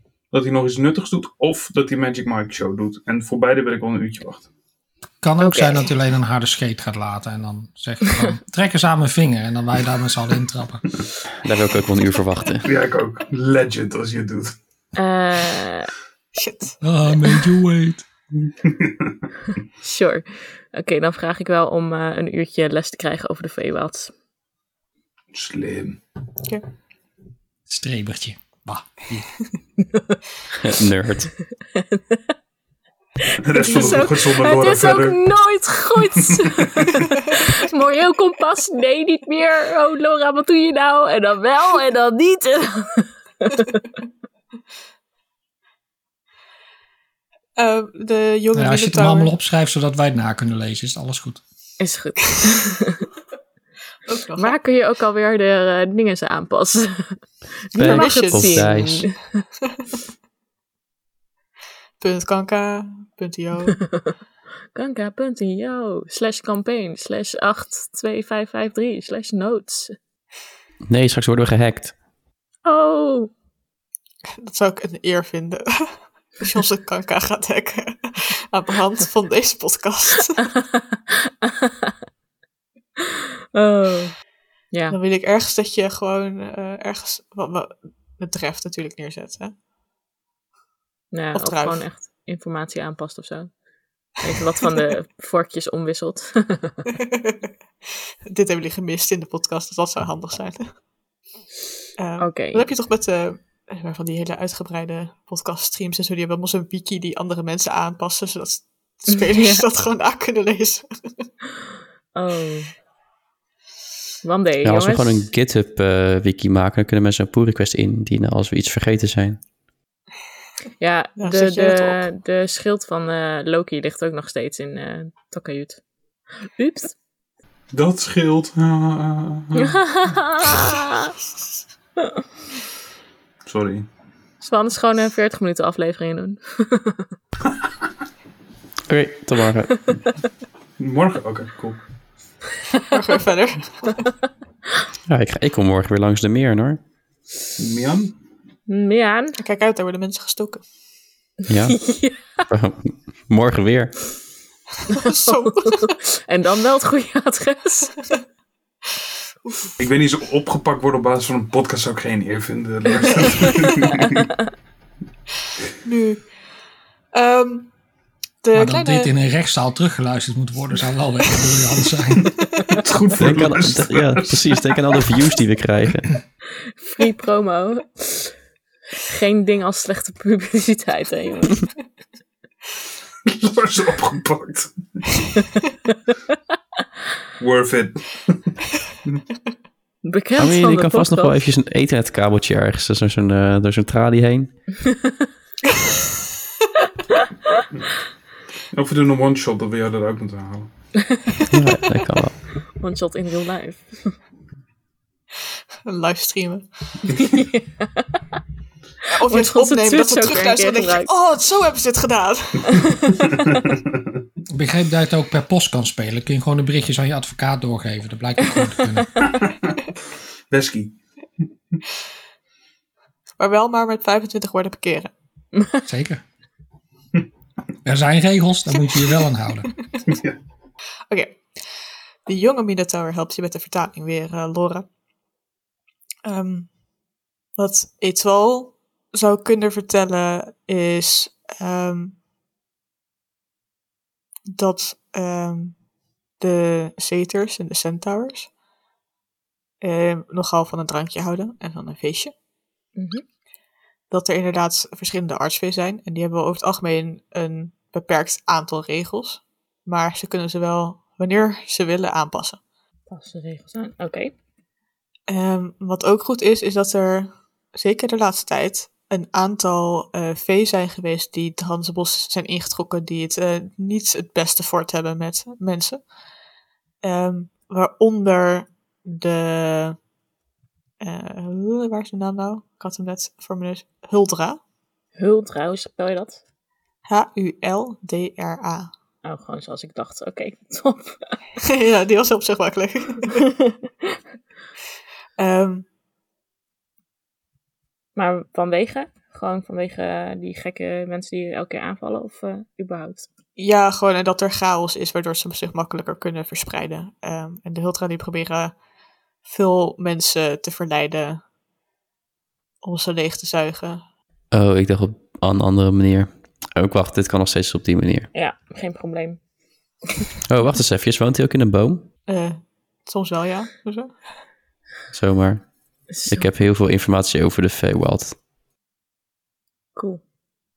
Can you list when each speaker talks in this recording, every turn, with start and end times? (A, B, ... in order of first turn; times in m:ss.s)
0:00.3-0:04.5 A
0:05.2-0:10.8 B
0:05.4-0:05.9 C
0:11.4-0:12.7 D
0:12.6-0:14.6 A
0:15.0-0:15.9 C
0:16.4-0:16.8 E
0:16.8-0:18.0 B
0:18.4-0:19.2 A
0:19.8-0:24.1 C
0:25.3-0:26.0 A
0:27.7-0:29.3 B
0:30.6-0:31.3 D
0:31.7-0:32.2 C
0:33.4-0:35.2 A
0:33.5-0:43.9 C
0:33.7-0:34.0 E
0:36.1-0:37.0 A
0:47.6-0:49.3 E
0:48.5-0:51.4 B
0:51.8-0:53.1 C
0:54.1-0:54.6 E
0:54.4-0:57.2 C
0:57.7-0:59.4 C
0:57.8-0:59.1 D
0:57.8-0:58.7 E
1:02.0-1:03.9 E
1:04.7-1:10.0 C
1:10.9-1:11.9 D
1:12.6-1:13.3 C
1:14.4-1:20.5 E
1:20.7-1:21.9 C
1:23.5-1:24.2 C
1:24.7-1:25.0 C
1:24.9-1:29.5 E
1:31.1-1:33.5 C
1:31.3-1:31.8 E
1:34.2-1:36.8 C
1:37.0-1:37.4 E
1:38.3-1:40.7 E
1:42.0-1:50.9 E
1:42.2-1:42.7 C
1:49.3-1:49.6 C
1:52.2-1:52.7 C
1:54.2-1:55.3 C
1:54.6-1:59.4 D
2:00.8-2:05.8 C
2:01.2-2:02.0 E
2:06.6-2:07.0 C
2:07.7-2:10.0 A
2:09.6-2:11.1 C
2:13.4-2:13.9 A
2:14.4-2:17.1 C
2:18.9-2:19.9 D
2:20.8-2:21.8 A
2:22.9-2:24.1 E
2:25.1-2:26.8 D
2:27.6-2:28.2 A
2:28.7-2:29.4 C
2:29.4-2:30.6 E
2:31.5-2:34.1 D
2:31.7-2:32.3 C
2:34.9-2:37.9 C
2:34.9-2:35.9 E
2:39.4-2:39.7 E
2:39.8-2:44.3 A
2:45.8-2:46.3 E
2:47.1-2:47.7 E
2:48.4-2:49.1 E
2:48.5-2:52.3 B
2:52.7-2:54.6 A
2:53.2-2:56.2 D
2:56.8-2:58.3 C
2:59.0-3:01.7 C
3:03.2-3:05.0 A
3:07.4-3:09.2 A
3:10.0-3:11.4 C
3:10.4-3:14.6 D
3:14.9-3:15.1 C
3:18.7-3:20.7 A
3:21.5-3:22.4 D
3:22.8-3:24.2 C
3:25.9-3:26.7 E
3:27.1-3:28.2 C
3:29.1-3:32.8 E
3:29.2-3:31.1 C
3:32.7-3:33.2 C
3:33.2-3:34.0 A
3:34.5-3:39.2 B
3:39.2-3:39.7 A
3:40.5-3:41.0 A
3:43.4-3:45.1 E
3:45.9-3:46.2 B
3:47.8-3:49.7 B
3:50.1-3:50.4 A
3:51.1-3:51.5 E
3:52.3-3:54.9 E
3:56.2-3:56.7 E
3:57.6-4:02.2 E
4:04.5-4:05.8 E
4:06.4-4:08.5 E
4:09.8-4:12.3 E
4:13.0-4:13.2 C
4:14.1-4:22.6 E
4:23.1-4:24.3 C
4:25.3-4:36.0 E
4:37.0-4:40.0 E
4:41.0-4:44.6 E
4:45.2-4:46.4 C
4:47.1-4:48.9 E
4:49.2-4:51.4 C
4:51.6-4:53.4 E
4:53.3-4:53.7 C
4:55.4-4:55.9 E
4:58.2-5:03.3 C
5:03.6-5:08.8 E
5:09.4-5:11.4 E
5:12.8-5:14.0 E
5:14.5-5:18.3 D
5:18.3-5:19.4 C
5:20.5-5:22.1 D
5:22.3-5:24.2 E
5:25.1-5:28.4 D
5:26.1-5:26.5 C
5:30.0-5:30.2 C